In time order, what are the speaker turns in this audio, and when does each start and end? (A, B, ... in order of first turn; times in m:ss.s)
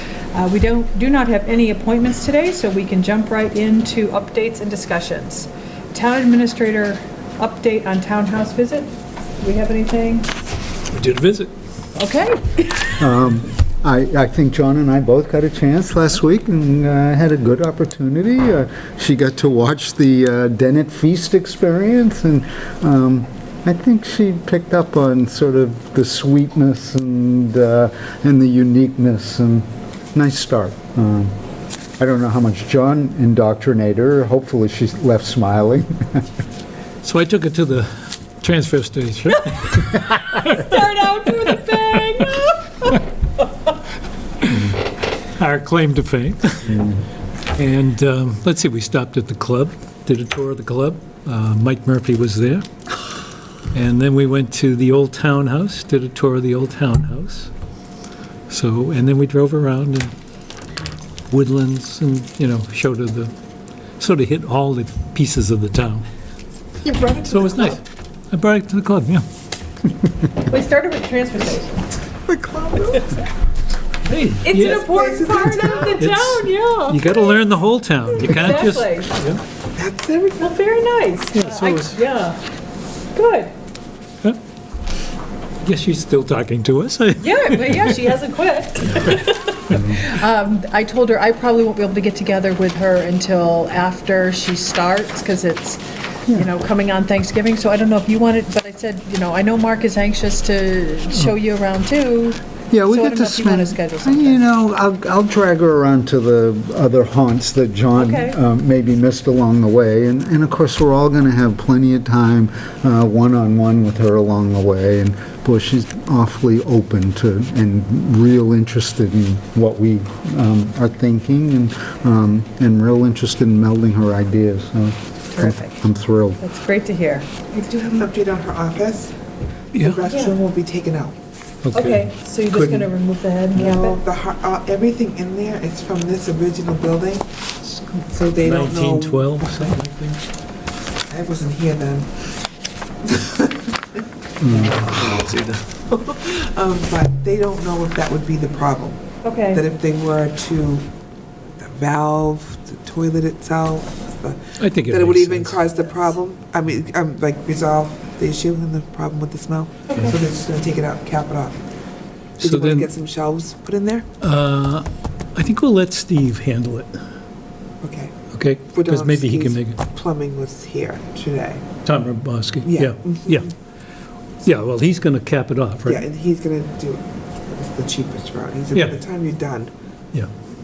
0:00.3-0:10.3 A
0:10.9-0:11.5 B
0:11.9-0:13.1 A
0:13.0-0:31.3 C
0:32.0-0:36.2 C
0:37.0-0:42.0 B
0:39.5-0:43.0 A
0:44.4-0:44.8 B
0:45.4-0:46.8 B
0:46.7-0:47.0 C
0:47.6-0:52.6 B
0:53.7-0:57.5 B
0:58.5-1:00.1 B
1:01.3-1:03.3 B
1:04.0-1:06.0 B
1:06.8-1:07.8 D
1:07.2-1:09.2 B
1:10.4-1:11.9 A
1:12.2-1:13.1 D
1:14.0-1:14.8 B
1:14.4-1:17.4 A
1:14.5-1:16.0 D
1:15.9-1:19.4 B
1:18.1-1:19.1 A
1:19.7-1:20.5 D
1:20.4-1:22.4 A
1:21.3-1:22.0 B
1:23.1-1:23.5 A
1:25.6-1:28.1 B
1:27.2-1:44.4 A
1:29.7-1:30.0 C
1:42.7-2:06.4 C
1:47.9-1:48.4 A
2:05.3-2:05.8 A
2:06.4-2:07.3 A
2:07.5-2:09.1 D
2:09.7-2:10.0 B
2:09.7-2:11.2 D
2:10.1-2:10.4 A
2:11.6-2:12.1 B
2:11.7-2:14.0 A
2:13.5-2:17.3 D
2:17.6-2:20.0 B
2:18.1-2:20.2 D
2:21.1-2:22.3 D
2:23.0-2:30.9 D
2:24.4-2:24.8 C
2:24.8-2:25.6 B
2:29.2-2:29.6 A
2:31.6-2:41.6 D
2:34.6-2:35.6 B
2:39.9-2:40.2 A
2:42.4-2:42.9 B
2:42.4-2:44.1 D
2:44.2-2:47.0 B
2:47.8-2:48.1 D
2:48.3-2:49.8 B
2:48.7-2:51.6 D
2:51.8-2:53.5 B
2:52.6-2:53.5 D
2:54.4-2:56.0 B
2:55.8-2:59.7 D
2:58.7-2:59.0 B